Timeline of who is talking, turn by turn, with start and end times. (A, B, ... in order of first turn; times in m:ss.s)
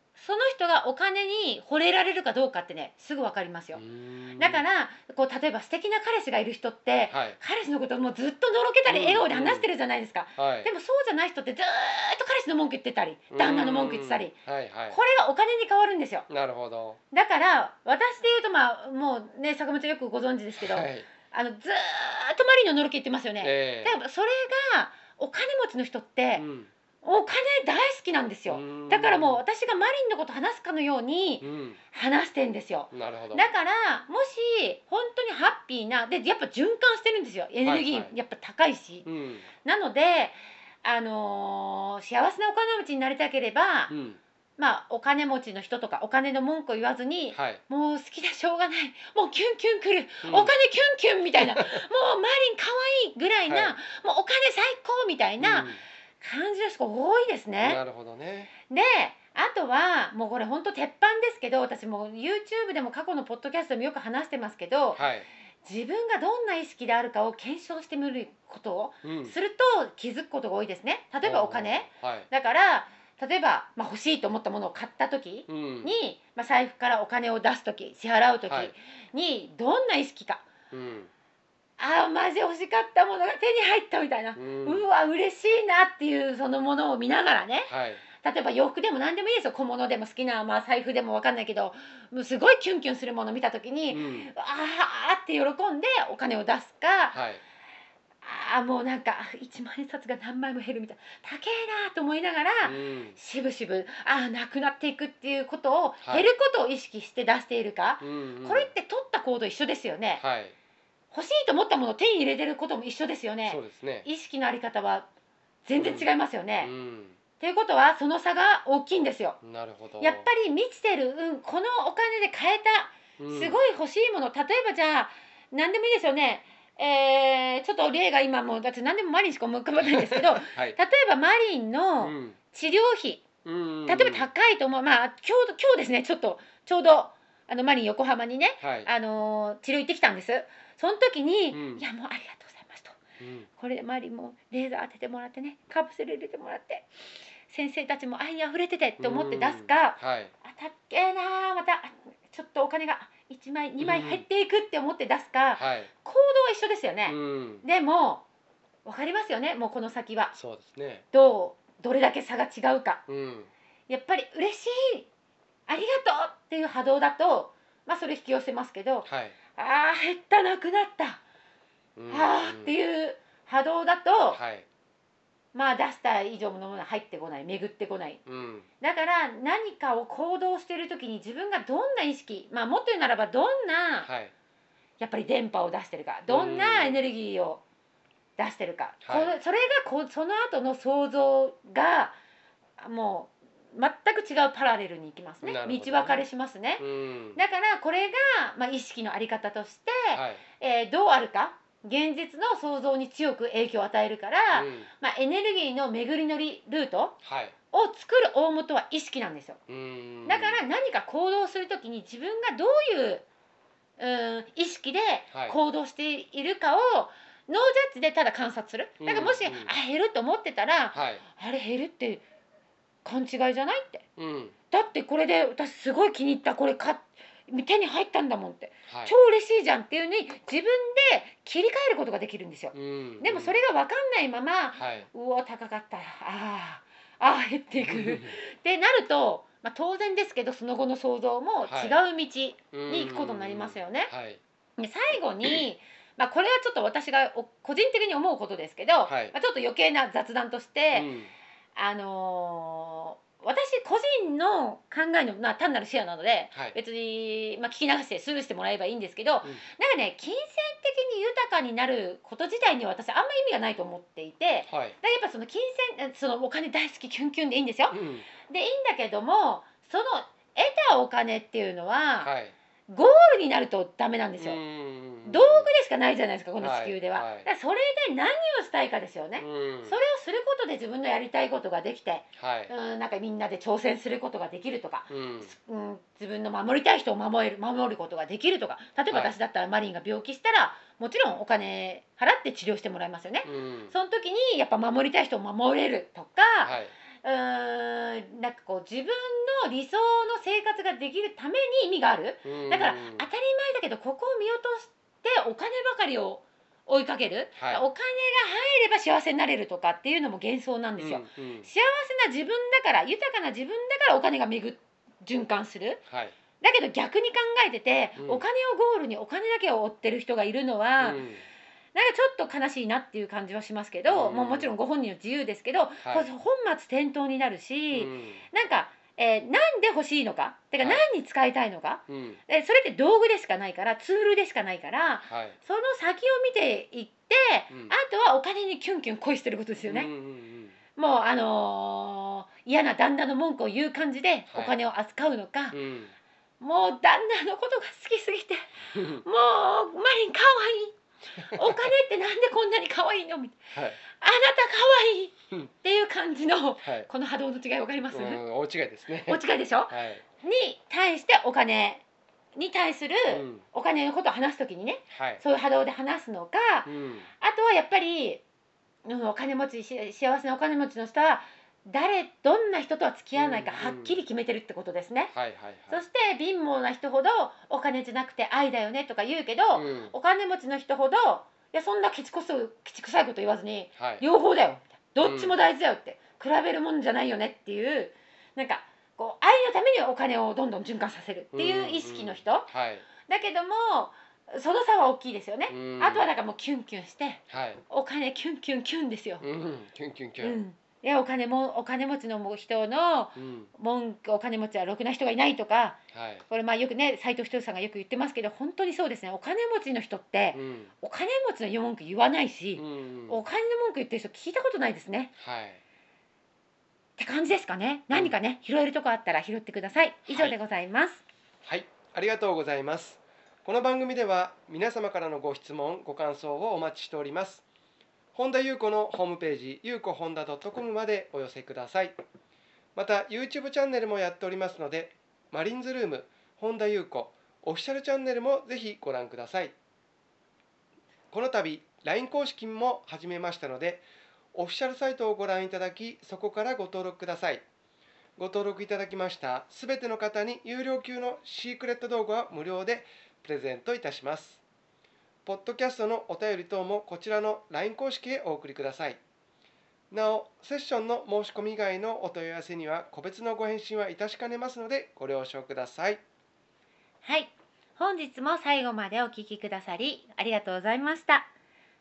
0:00.2-0:03.8 A
0:03.7-0:04.6 B
0:04.4-0:14.4 A
0:07.1-0:07.4 B
0:08.9-0:09.7 B
0:10.4-0:10.7 B
0:13.3-0:15.0 B
0:14.9-0:16.3 A
0:16.3-0:17.0 B
0:17.1-0:26.4 A
0:20.6-0:21.1 B
0:23.4-0:24.0 B
0:26.4-0:26.7 B
0:27.0-0:39.1 A
0:28.5-0:29.4 B
0:31.4-0:31.8 B
0:32.9-0:33.5 B
0:37.6-0:38.1 B
0:39.0-0:39.5 B
0:39.6-0:43.9 A
0:43.9-0:44.2 B
0:44.6-0:57.8 A
0:47.3-0:47.6 B
0:50.2-0:50.5 B
0:51.5-0:51.8 B
0:53.5-0:53.8 B
0:55.4-0:55.8 B
0:57.6-0:58.5 B
0:58.7-1:05.0 A
1:05.0-1:05.3 B
1:05.6-1:20.5 A
1:09.0-1:09.4 B
1:11.2-1:12.3 B
1:15.5-1:16.0 B
1:18.5-1:18.7 B
1:20.7-1:21.1 B
1:21.8-1:37.2 A
1:24.4-1:24.9 B
1:27.7-1:28.0 B
1:33.9-1:34.3 B
1:37.1-1:37.4 B
1:38.2-1:50.2 A
1:42.6-1:43.2 B
1:48.0-1:48.7 B
1:50.2-1:50.6 B
1:51.1-1:55.1 A
1:53.5-1:54.1 B
1:55.7-1:56.7 A
1:55.8-1:56.1 B
1:56.6-1:57.2 B
1:57.4-1:59.4 A
1:59.4-2:00.3 B
2:00.0-2:13.3 A
2:03.2-2:03.6 B
2:09.8-2:10.8 B
2:12.0-2:12.4 B
2:13.4-2:14.3 B
2:13.9-2:23.0 A
2:18.6-2:18.9 B
2:21.5-2:21.8 B
2:23.2-2:23.5 B
2:23.6-2:26.9 A
2:27.5-2:38.2 A
2:29.0-2:30.3 B
2:33.8-2:34.2 B
2:35.6-2:35.9 B
2:37.1-2:37.6 B
2:38.8-2:40.4 A
2:40.3-2:41.0 B
2:41.1-2:43.0 A
2:43.1-2:43.5 B
2:43.9-2:45.1 A
2:45.7-2:51.2 A
2:49.0-2:49.4 B
2:52.0-2:52.8 B
2:52.1-2:54.4 A
2:54.3-2:54.7 B
2:55.5-2:58.2 A
2:58.3-2:58.7 B
2:58.8-3:04.1 A
3:04.0-3:04.3 B
3:05.0-3:07.6 A
3:06.3-3:07.0 B
3:08.4-3:12.2 A
3:09.0-3:09.4 B
3:12.8-3:16.8 A
3:15.4-3:16.2 B
3:16.8-3:17.4 B
3:17.4-3:27.2 A
3:20.1-3:20.4 B
3:24.5-3:24.9 B
3:27.2-3:27.6 B
3:27.7-3:29.6 A
3:29.7-3:30.6 B
3:30.3-3:33.3 A
3:34.0-3:42.2 A
3:35.3-3:35.6 B
3:39.0-3:39.7 B
3:40.9-3:41.2 B
3:43.0-3:44.1 A
3:44.2-3:44.6 B
3:44.7-4:04.1 A
3:48.9-3:49.1 B
3:52.7-3:53.6 B
3:54.8-3:55.1 B
3:57.8-3:58.3 B
4:01.6-4:02.0 B
4:02.7-4:04.4 B
4:04.8-4:11.1 A
4:09.1-4:09.3 B
4:10.9-4:11.3 B
4:11.8-4:32.3 A
4:24.7-4:25.0 B
4:27.9-4:28.3 B
4:32.2-4:32.6 B
4:32.9-4:34.6 A
4:34.4-4:35.7 B
4:35.2-5:16.0 A
4:36.6-4:37.5 B
4:39.4-4:40.0 B
4:42.4-4:42.7 B
4:45.1-4:45.5 B
4:49.1-4:49.4 B
4:53.4-4:54.0 B
4:56.6-4:56.9 B
5:02.4-5:03.3 B
5:07.6-5:07.8 B
5:11.0-5:11.7 B
5:16.1-5:16.4 B
5:16.6-5:21.2 A
5:18.2-5:18.4 B
5:21.0-5:21.4 B
5:22.0-5:40.1 A
5:24.1-5:24.8 B
5:26.0-5:26.3 B
5:27.9-5:28.4 B
5:32.1-5:32.4 B
5:35.3-5:35.6 B
5:37.7-5:38.0 B
5:39.8-5:40.8 B
5:41.0-5:45.8 A
5:44.5-5:44.8 B
5:45.7-5:46.1 B
5:46.6-5:58.4 A
5:48.9-5:49.2 B
5:53.7-5:54.0 B
5:56.8-5:57.1 B
5:58.1-6:00.2 B
5:59.2-6:02.0 A
6:02.6-6:08.4 A
6:03.3-6:03.6 B
6:05.1-6:05.4 B
6:06.8-6:07.3 B
6:09.0-6:15.3 A
6:13.4-6:14.2 B
6:15.3-6:16.0 B
6:15.9-6:39.5 A
6:19.7-6:20.1 B
6:24.0-6:24.2 B
6:25.2-6:25.6 B
6:31.5-6:33.1 B
6:35.7-6:36.3 B
6:37.5-6:37.8 B
6:39.4-6:40.6 B
6:40.4-6:55.3 A
6:43.4-6:43.7 B
6:46.1-6:46.4 B
6:50.5-6:50.9 B
6:52.8-6:53.4 B
6:55.4-6:55.8 B
6:57.2-7:01.2 A
7:00.3-7:00.6 B
7:01.6-7:07.6 B
7:08.3-7:12.2 B
7:13.0-7:19.7 B
7:21.3-7:27.6 B
7:28.4-7:34.6 B
7:35.4-7:39.2 B
7:40.1-7:46.2 B
7:47.2-7:51.5 A